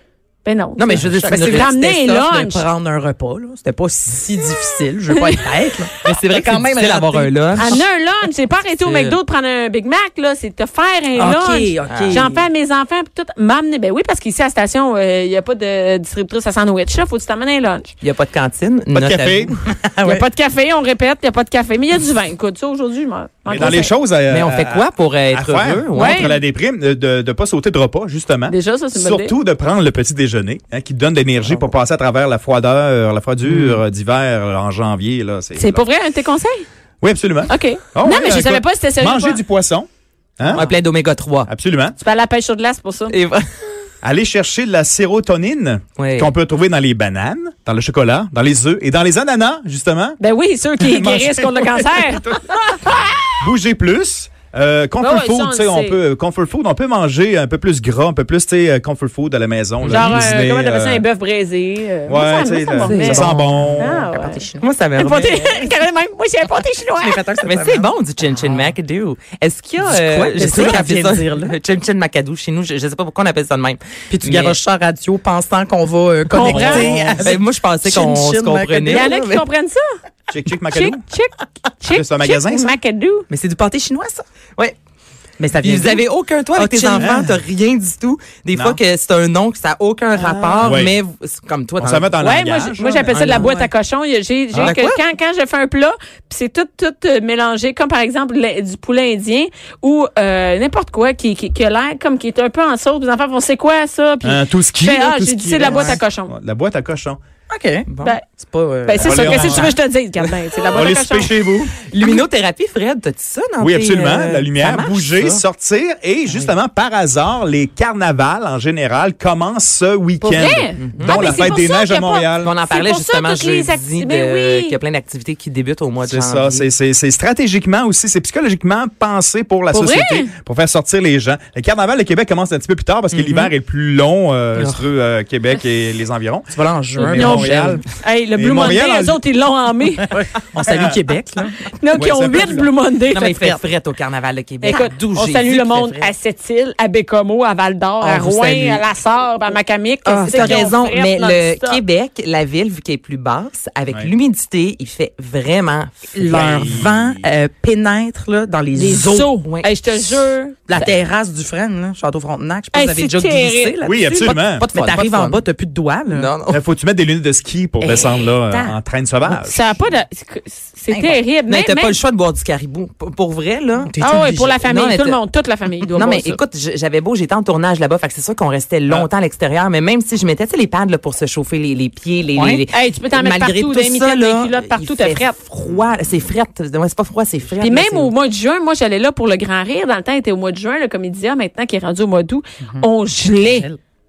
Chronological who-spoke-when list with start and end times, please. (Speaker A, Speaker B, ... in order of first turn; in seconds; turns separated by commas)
Speaker A: 0.4-2.6, Speaker B: 0.8-1.7, Speaker C: 0.9-7.8, Speaker A: 5.1-5.6, Speaker B: 6.0-7.8, Speaker A: 7.5-17.9, Speaker B: 8.8-9.2, Speaker C: 11.2-12.5, Speaker B: 11.8-12.3, Speaker B: 18.0-19.6, Speaker D: 18.9-19.5, Speaker C: 19.8-20.2, Speaker A: 20.0-23.9, Speaker D: 23.5-35.9, Speaker B: 24.3-26.4, Speaker A: 25.9-26.3, Speaker A: 28.5-29.3, Speaker B: 33.4-33.8, Speaker A: 35.5-36.6, Speaker D: 37.0-39.9, Speaker A: 37.5-39.4, Speaker D: 40.4-40.7, Speaker B: 40.4-41.5, Speaker D: 41.5-42.0, Speaker A: 42.0-43.1, Speaker B: 43.1-43.5, Speaker D: 44.0-50.2, Speaker B: 46.0-46.3, Speaker A: 50.2-52.4, Speaker D: 50.8-61.0, Speaker A: 55.0-56.0, Speaker B: 59.8-60.2, Speaker A: 59.9-64.4, Speaker D: 62.1-64.1, Speaker B: 62.8-63.7, Speaker C: 63.8-64.7, Speaker B: 64.6-65.7, Speaker A: 65.0-67.2, Speaker C: 67.0-68.7, Speaker B: 67.4-74.6, Speaker C: 69.8-71.5, Speaker C: 74.1-79.2, Speaker A: 76.3-77.0, Speaker D: 76.4-77.4, Speaker B: 77.2-79.4, Speaker A: 78.9-79.8, Speaker D: 80.3-81.0, Speaker A: 80.7-83.2, Speaker D: 81.9-82.8, Speaker C: 83.3-84.2, Speaker C: 85.4-87.4, Speaker B: 85.6-92.2, Speaker D: 86.9-87.3, Speaker D: 90.2-91.0, Speaker D: 91.8-93.1, Speaker A: 92.2-106.3, Speaker B: 93.1-93.5, Speaker C: 93.2-93.7, Speaker B: 94.6-95.0, Speaker D: 104.2-107.2, Speaker C: 105.6-106.0, Speaker C: 107.5-107.8, Speaker B: 107.9-108.2, Speaker C: 108.4-109.8, Speaker A: 108.8-111.5, Speaker D: 109.0-109.8, Speaker D: 110.7-111.8, Speaker B: 111.8-115.4, Speaker D: 113.6-122.5, Speaker B: 116.3-116.5, Speaker B: 120.2-121.5, Speaker A: 120.3-124.8, Speaker B: 122.4-126.7, Speaker D: 126.0-137.8, Speaker A: 129.7-130.3, Speaker C: 133.1-133.5, Speaker C: 134.6-134.8, Speaker C: 136.5-137.8, Speaker A: 137.1-140.2, Speaker D: 138.4-139.2, Speaker C: 140.1-141.7, Speaker D: 140.6-141.0, Speaker A: 141.8-143.5, Speaker D: 141.9-142.7, Speaker B: 143.1-146.1, Speaker A: 144.6-151.8, Speaker C: 148.0-148.8, Speaker C: 150.0-150.7, Speaker B: 150.2-156.7, Speaker C: 156.1-159.3, Speaker D: 156.2-157.2, Speaker A: 158.7-160.6, Speaker B: 159.4-161.0, Speaker C: 160.7-163.9, Speaker A: 162.7-164.4, Speaker D: 163.8-164.7, Speaker B: 164.2-165.4, Speaker C: 164.7-166.3, Speaker B: 166.1-166.6, Speaker D: 166.5-169.8, Speaker C: 167.8-168.7, Speaker A: 169.3-172.0, Speaker C: 170.9-171.2, Speaker B: 171.5-173.9, Speaker C: 173.8-174.6, Speaker A: 174.0-176.4, Speaker B: 174.6-175.2, Speaker B: 175.9-188.1, Speaker C: 182.3-182.6, Speaker A: 182.7-185.4, Speaker A: 187.6-193.7, Speaker C: 193.4-193.8